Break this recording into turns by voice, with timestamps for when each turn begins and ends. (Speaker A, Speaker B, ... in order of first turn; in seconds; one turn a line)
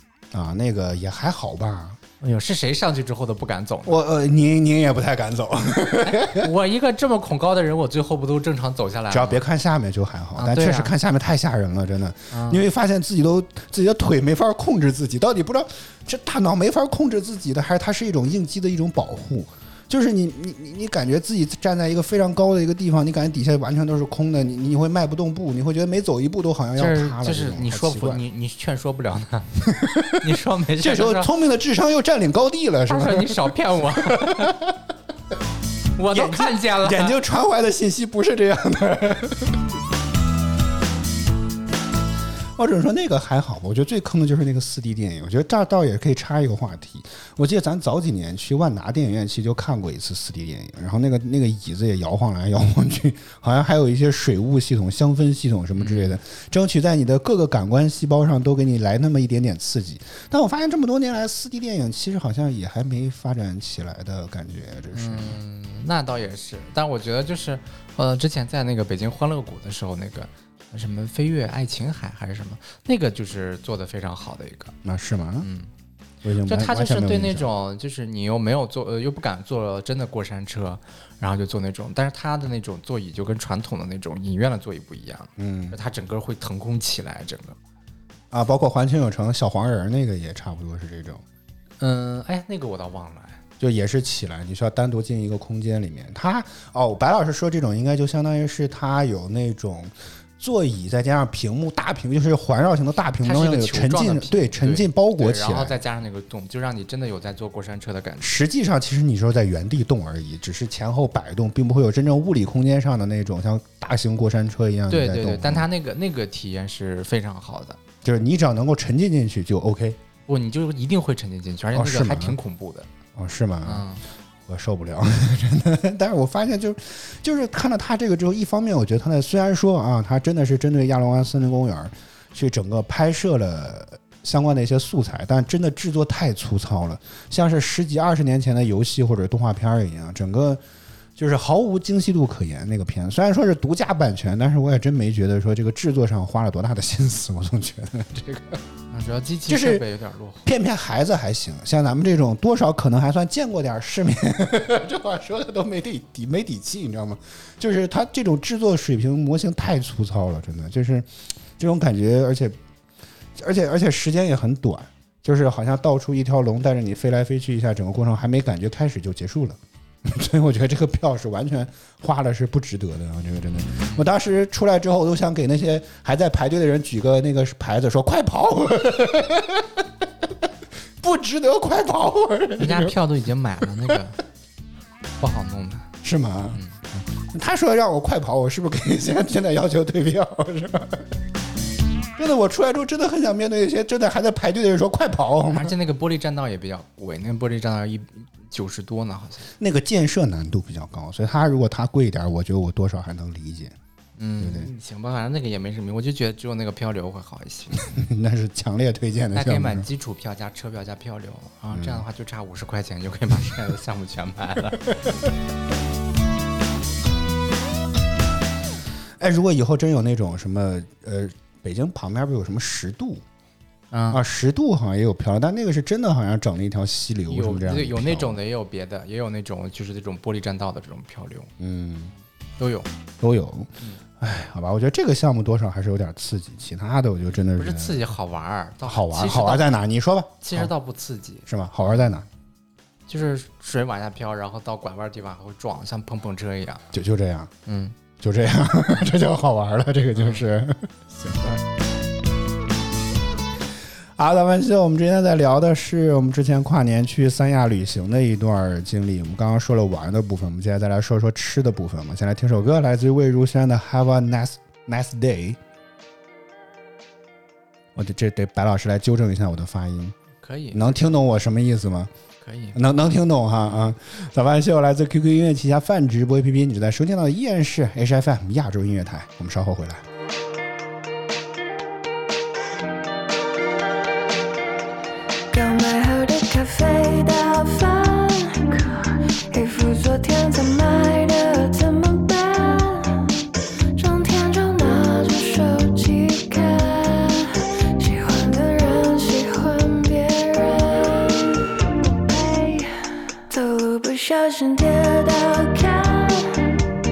Speaker A: 0.3-2.0
Speaker B: 2.2-4.0
Speaker A: 3.9-6.5
Speaker B: 6.0-9.4
Speaker A: 9.1-28.2
Speaker B: 10.3-10.9
Speaker B: 12.3-12.6
Speaker B: 26.8-31.3
Speaker A: 29.6-30.3
Speaker A: 30.8-34.8
Speaker B: 32.9-34.5
Speaker B: 36.0-37.2
Speaker A: 36.1-39.6
Speaker A: 42.6-65.4
Speaker B: 55.8-56.2
Speaker B: 64.9-74.7
Speaker A: 74.8-75.5
Speaker B: 75.4-75.7
Speaker A: 76.2-77.5
Speaker B: 76.5-87.6
Speaker A: 85.4-85.8
Speaker A: 88.3-91.2
Speaker B: 91.8-93.4
Speaker A: 93.6-105.8
Speaker B: 103.2-108.4
Speaker A: 108.2-115.7
Speaker B: 114.9-117.8
Speaker A: 118.0-120.0
Speaker B: 120.3-122.9
Speaker A: 121.7-122.4
Speaker A: 123.1-123.9
Speaker B: 123.6-124.0
Speaker A: 124.5-140.6
Speaker A: 141.2-148.6
Speaker B: 148.9-150.4
Speaker A: 149.5-149.8
Speaker A: 150.4-162.6
Speaker A: 163.3-179.8
Speaker A: 181.0-183.0
Speaker B: 182.6-184.2
Speaker B: 185.2-185.9
Speaker A: 186.0-186.6
Speaker A: 187.2-191.1
Speaker A: 192.2-195.7
Speaker B: 195.5-199.5
Speaker A: 199.6-203.7
Speaker B: 204.2-207.8
Speaker A: 204.4-204.7
Speaker A: 207.8-209.9
Speaker B: 209.3-215.0
Speaker A: 211.7-212.0
Speaker A: 219.2-223.2
Speaker B: 223.9-224.2
Speaker A: 224.1-228.4
Speaker B: 227.3-231.5
Speaker A: 231.6-232.1
Speaker B: 232.6-232.9
Speaker A: 233.2-238.0
Speaker B: 237.6-239.7
Speaker A: 238.8-240.7
Speaker B: 240.4-241.5
Speaker A: 241.5-242.2
Speaker B: 243.1-246.8
Speaker A: 246.9-247.5
Speaker B: 247.7-247.9
Speaker A: 248.2-251.6
Speaker B: 250.2-250.4
Speaker A: 254.2-265.6
Speaker A: 267.9-270.1
Speaker B: 270.4-271.1
Speaker A: 270.7-272.1
Speaker B: 272.4-272.8
Speaker A: 272.7-280.0
Speaker C: 285.5-293.3
Speaker C: 293.9-302.9
Speaker C: 303.5-306.8